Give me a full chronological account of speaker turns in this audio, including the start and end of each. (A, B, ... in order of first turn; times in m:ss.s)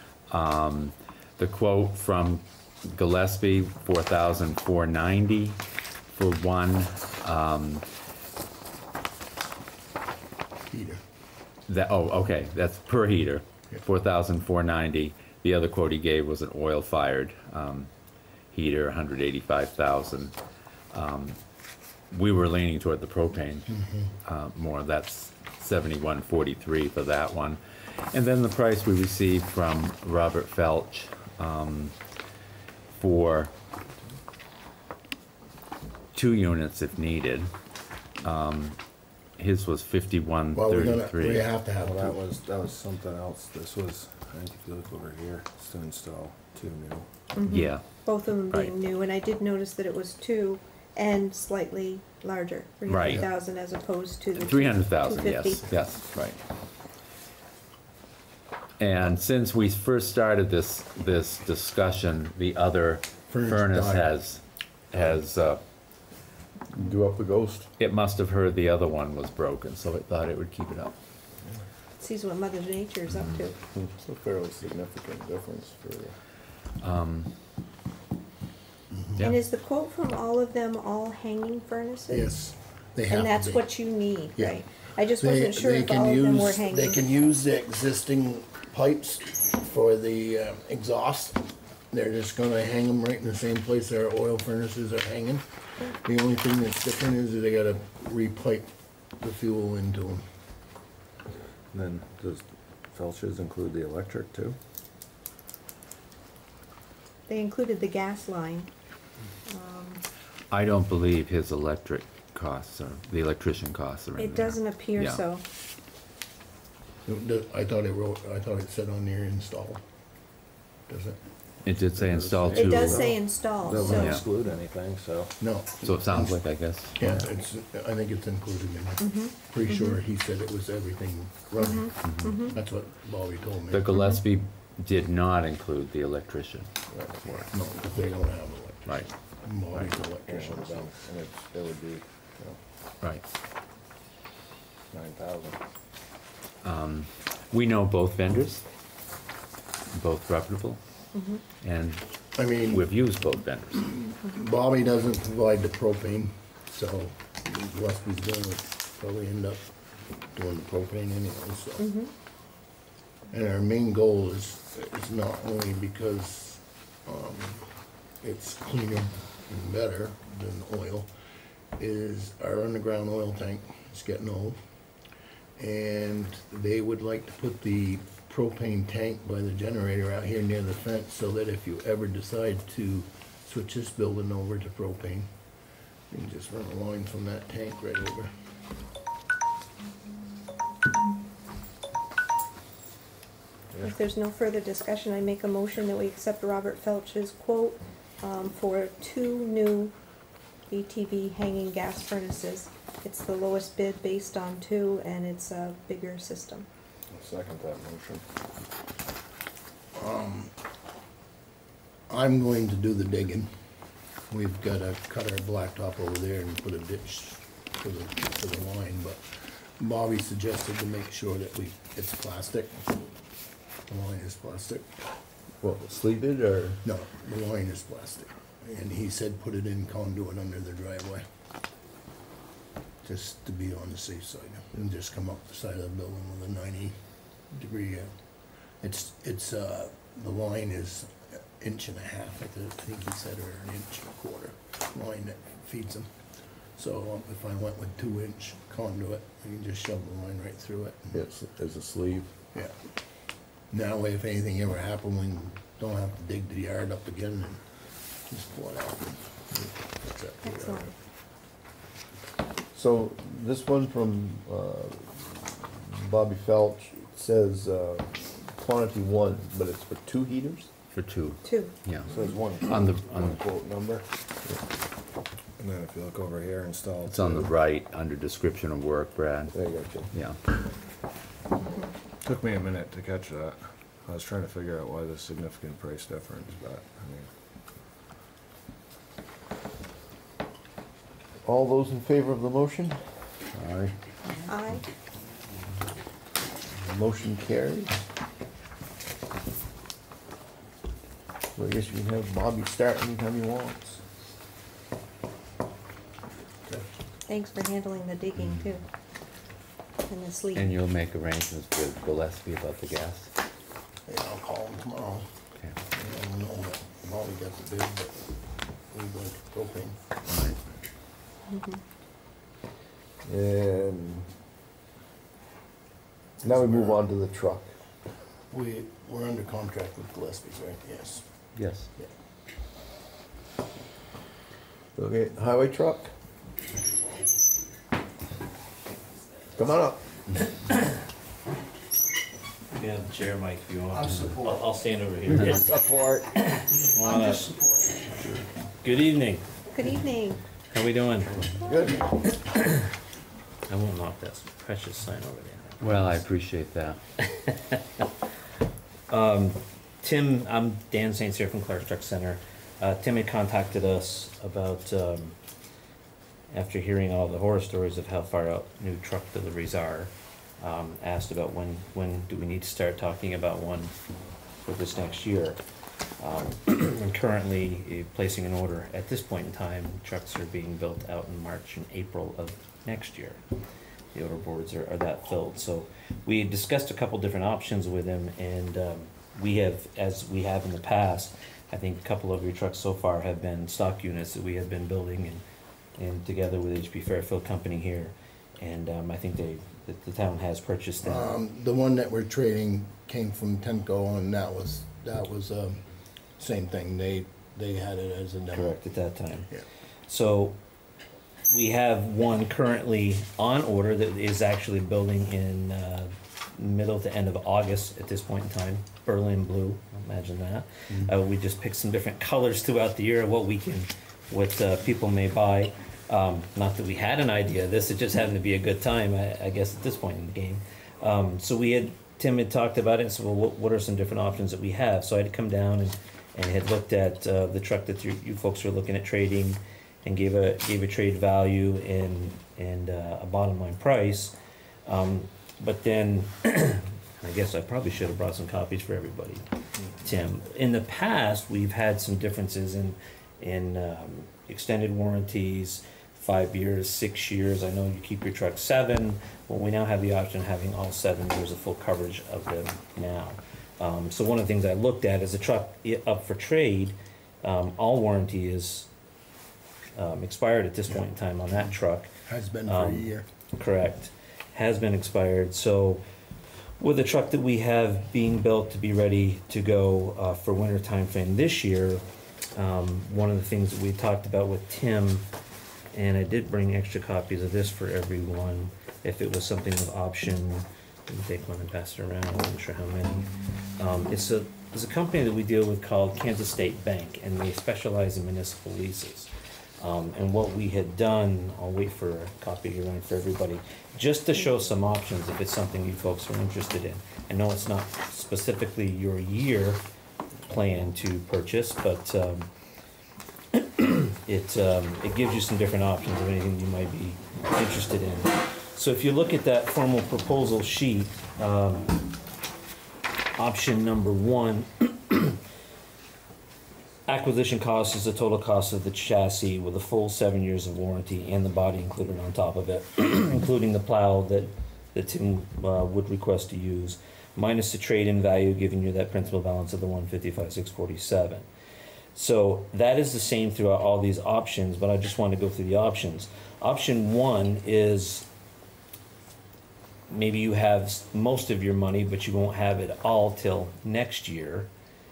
0:00.3-0:07.8 A
0:10.7-0:11.0 B
0:11.7-0:17.9 A
0:18.5-0:20.3 A
0:20.9-0:21.4 A
0:22.1-0:32.0 A
0:23.7-0:24.1 B
0:32.9-0:33.5 A
0:36.1-0:37.5 A
0:38.2-0:38.8 A
0:39.4-0:41.5 A
0:40.5-0:42.2 B
0:41.8-0:47.1 C
0:47.3-0:55.8 D
0:47.5-0:47.8 A
0:48.5-0:48.7 A
0:52.8-0:53.2 A
0:54.3-0:56.4 A
0:58.8-1:05.6 A
1:03.3-1:04.2 B
1:06.8-1:07.6 E
1:07.8-1:10.9 A
1:12.0-1:13.5 D
1:13.8-1:16.2 C
1:16.8-1:17.3 A
1:18.9-1:19.2 B
1:19.2-1:19.4 A
1:19.2-1:22.3 D
1:22.1-1:23.6 B
1:23.1-1:27.0 D
1:24.4-1:24.6 B
1:25.1-1:35.4 B
1:36.0-1:38.7 B
1:39.2-1:40.2 B
1:41.7-1:44.6 C
1:47.3-1:48.7 D
1:49.5-1:50.0 D
1:50.5-1:55.2 A
1:54.2-1:55.4 D
1:57.0-1:59.8 B
2:00.9-2:01.2 B
2:01.6-2:03.1 A
2:01.6-2:05.4 C
2:02.5-2:04.2 D
2:03.8-2:04.4 F
2:03.9-2:04.2 A
2:05.4-2:06.3 B
2:05.8-2:07.0 A
2:07.0-2:13.9 B
2:09.0-2:10.0 D
2:11.6-2:12.6 D
2:12.0-2:12.5 A
2:13.7-2:16.7 A
2:16.9-2:17.2 C
2:17.4-2:20.9 B
2:20.2-2:22.6 C
2:24.9-2:25.6 C
2:26.6-2:28.6 A
2:29.9-2:30.8 A
2:31.1-2:31.4 D
2:31.6-2:32.0 A
2:32.4-2:32.9 B
2:32.6-2:33.9 A
2:33.8-2:39.6 B
2:40.3-2:41.8 B
2:41.8-2:42.1 D
2:43.3-2:47.7 B
2:48.2-2:51.1 B
2:51.8-2:54.6 B
2:55.6-3:05.3 B
3:06.1-3:08.3 B
3:13.8-3:19.9 D
3:20.7-3:26.6 D
3:27.1-3:28.2 C
3:29.9-3:30.5 B
3:32.1-3:33.5 B
3:34.3-3:42.8 B
3:43.9-3:45.0 B
3:45.6-3:46.8 E
3:46.8-3:51.2 B
3:53.0-3:56.9 B
3:57.5-3:58.1 B
3:58.8-4:06.1 B
4:06.7-4:11.2 B
4:11.1-4:12.3 E
4:13.7-4:17.6 B
4:18.3-4:19.2 B
4:20.0-4:20.9 B
4:20.4-4:20.9 D
4:22.7-4:30.7 E
4:30.9-4:32.1 A
4:31.4-4:31.7 D
4:32.0-4:34.0 C
4:32.6-4:33.4 A
4:35.6-4:37.5 C
4:37.1-4:40.4 A
4:39.6-4:40.1 E
4:42.2-4:47.3 C
4:51.4-4:53.0 E
4:54.5-4:54.8 D
4:56.8-4:57.9 E
5:01.5-5:04.0 E
5:07.3-5:08.8 D
5:10.0-5:10.7 D
5:10.5-5:13.3 A
5:14.1-5:15.3 B
5:16.0-5:18.3 B
5:18.9-5:20.0 B
5:20.3-5:20.6 A
5:21.5-5:21.8 D
5:23.2-5:24.3 E
5:26.4-5:27.0 B
5:26.4-5:27.7 E
5:28.5-5:31.2 B
5:31.5-5:31.9 A
5:35.0-5:36.1 E
5:39.6-5:40.0 E
5:42.8-5:43.1 F
5:42.8-5:45.7 G
5:43.9-5:44.8 F
5:45.7-5:46.2 E
5:46.3-5:47.5 G
5:46.9-5:48.1 F
5:48.8-5:49.4 G
5:49.7-5:50.4 D
5:50.7-5:51.6 G
5:51.6-5:52.1 E
5:52.2-5:52.8 G
5:53.7-5:56.1 G
5:55.8-5:57.0 A
5:59.1-6:05.4 G
6:06.5-6:13.9 G
6:14.6-6:15.6 G
6:16.2-6:23.4 G
6:24.1-6:35.4 G
6:36.0-6:41.3 G
6:41.0-6:45.8 B
6:46.4-6:48.8 B
6:48.6-6:49.5 G
6:50.1-6:50.6 G
6:51.5-7:24.3 G
7:24.8-7:29.4 G
7:30.0-7:48.9 G
7:49.9-7:52.1 G
7:52.3-7:53.2 B
7:52.6-7:56.0 G
7:56.8-8:02.0 G
8:02.5-8:05.2 G
8:05.9-8:29.8 G
8:30.5-8:32.5 G
8:33.5-8:42.1 G
8:43.4-8:45.4 G
8:47.1-9:01.5 G
9:02.1-9:08.2 G
9:10.1-9:14.7 G